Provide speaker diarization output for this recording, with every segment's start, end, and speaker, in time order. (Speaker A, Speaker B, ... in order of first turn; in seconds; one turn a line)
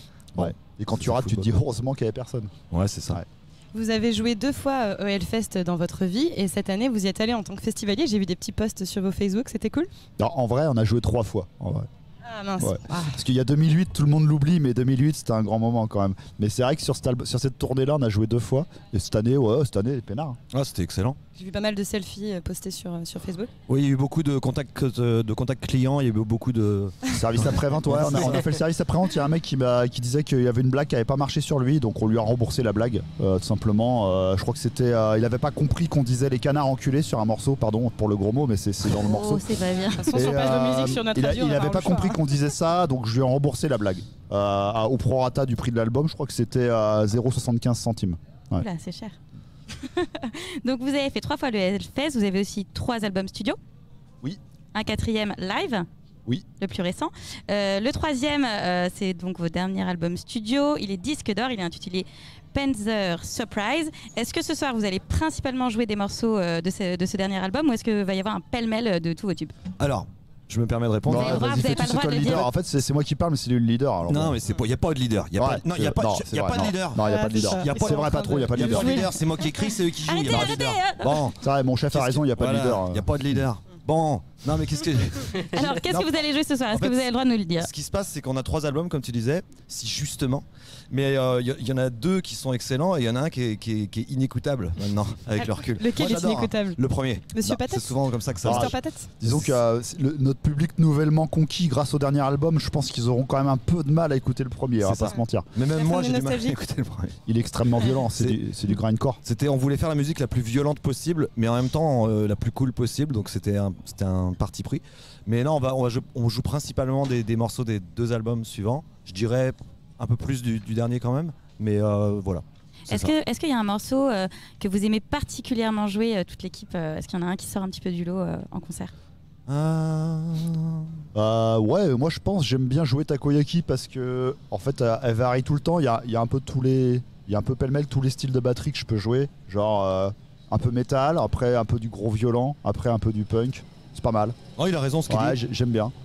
Speaker A: 0.3-1.5
Speaker B: 0.3-2.5
Speaker A: 2.7-3.2
Speaker C: 3.7-9.9
Speaker B: 10.2-11.9
Speaker C: 12.2-13.2
Speaker B: 12.6-20.4
Speaker A: 20.5-21.2
Speaker C: 21.4-23.5
Speaker A: 23.7-28.5
Speaker B: 27.1-39.4
Speaker D: 39.0-40.2
Speaker C: 40.0-42.2
Speaker B: 40.1-48.6
Speaker D: 48.5-49.1
Speaker D: 49.7-53.6
Speaker D: 54.7-55.9
Speaker D: 56.6-69.5
Speaker A: 69.8-71.7
Speaker B: 71.0-74.4
Speaker D: 71.1-72.5
Speaker A: 74.1-86.1
Speaker B: 75.3-79.1
Speaker C: 77.0-79.2
Speaker D: 80.0-81.2
Speaker B: 80.3-80.5
Speaker B: 81.4-83.5
Speaker D: 85.4-87.7
Speaker A: 86.7-87.0
Speaker A: 87.6-99.6
Speaker C: 95.4-96.8
Speaker C: 97.3-97.9
Speaker B: 98.4-105.5
Speaker C: 98.5-99.1
Speaker A: 104.8-107.2
Speaker C: 105.7-106.6
Speaker B: 107.3-109.2
Speaker A: 108.1-108.4
Speaker A: 109.2-123.1
Speaker D: 122.9-128.9
Speaker A: 129.5-130.9
Speaker B: 131.1-144.3
Speaker A: 144.6-145.4
Speaker B: 145.1-145.9